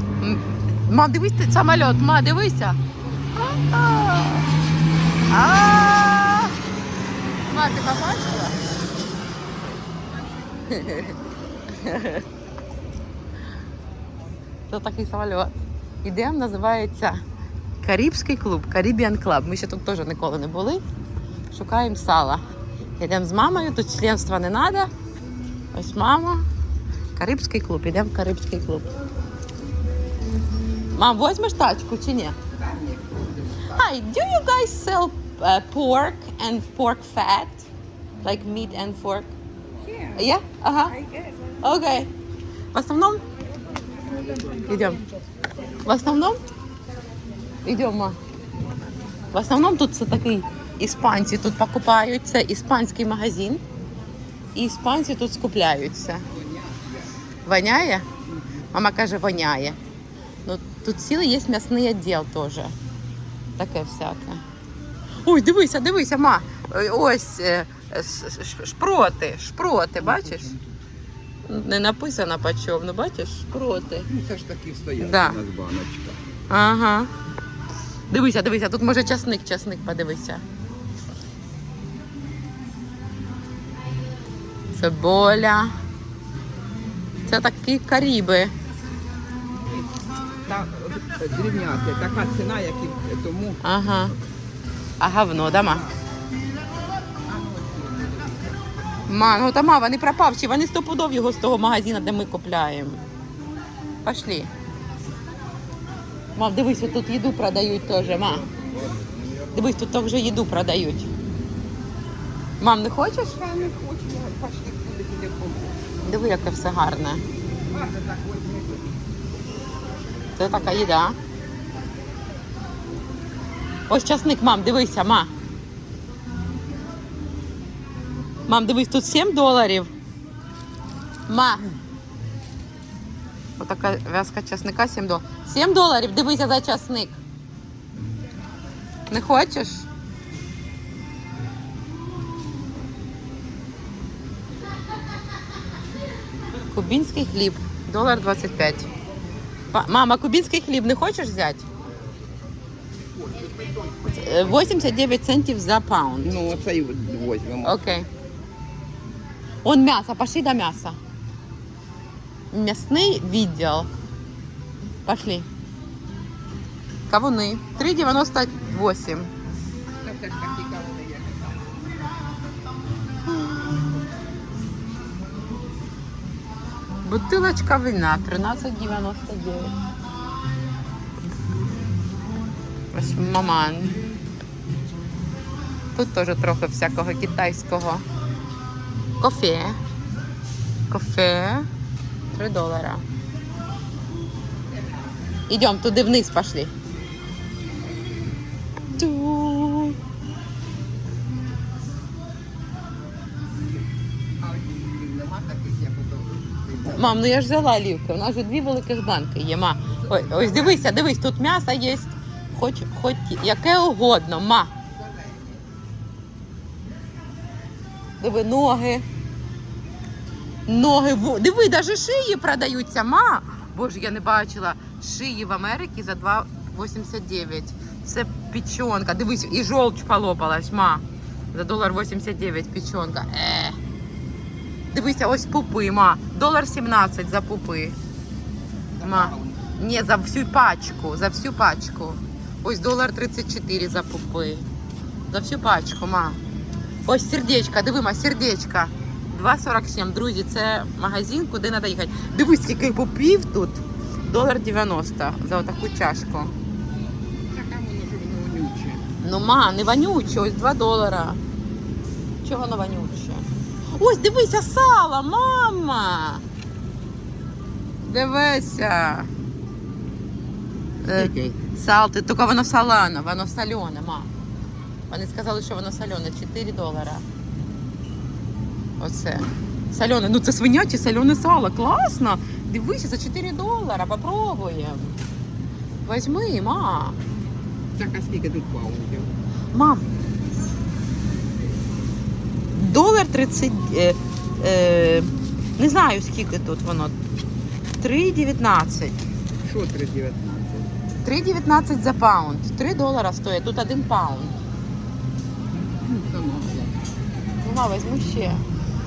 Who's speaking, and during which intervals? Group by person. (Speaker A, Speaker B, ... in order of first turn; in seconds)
Speaker A: 0.2-2.8, 3.3-4.5, 5.3-6.5, 7.5-8.6, 10.7-11.1, 11.7-12.2, 14.7-17.2, 17.8-20.8, 21.5-22.4, 23.0-24.9, 25.7-26.4, 27.1-28.9, 30.9-32.4, 33.7-37.7, 38.2-39.3, 40.1-41.0, 41.6-42.1, 42.7-43.2, 44.6-45.0, 45.8-46.4, 47.6-48.2, 49.3-53.6, 54.5-56.2, 57.4-58.0, 58.7-59.8, 60.4-62.7, 63.6-64.4, 65.2-70.5, 71.5-74.1, 75.0-75.4, 76.5-77.1, 78.1-80.4, 84.7-85.8, 87.2-88.5, 93.6-94.1, 95.0-95.8, 99.1-103.0, 104.0-104.5, 106.3-108.5, 109.5-111.1, 112.6-113.4, 116.0-117.2, 120.4-121.2, 123.9-125.3, 128.5-129.9, 131.3-131.7, 133.6-137.2, 139.1-139.8, 146.7-148.9, 149.7-151.6, 154.0-156.4, 157.6-158.1, 159.6-161.0, 162.5-163.9, 165.0-165.5, 167.1-169.3, 177.0-179.7, 182.9-184.0, 185.9-188.0, 189.2-189.8, 190.9-191.7, 192.3-193.0, 195.5-196.7, 199.0-200.0, 206.8-214.7, 218.2-219.0, 220.7-233.8, 234.9-237.9, 239.0-244.7, 245.3-246.4, 247.0-256.5, 259.2-261.4, 262.4-266.4, 268.0-269.3, 271.0-274.3, 275.1-277.2, 279.0-285.2, 286.0-287.2, 289.7-290.1, 292.7-297.1, 298.0-299.2, 301.2-304.6, 307.6-308.6
Speaker B: 10.2-11.2, 32.5-33.8, 39.9-40.1, 56.2-57.1, 70.0-70.7, 74.1-76.2, 89.5-93.6, 95.6-96.0, 97.2-99.0, 108.5-109.1, 113.3-115.8, 117.7-120.5, 153.1-154.7, 156.2-157.8, 170.0-171.8, 194.7-195.1, 204.4-207.3, 210.0-211.0, 214.9-215.6, 239.0-239.7, 257.5-259.1, 271.1-271.6, 287.9-289.3, 299.6-300.9, 306.0-307.0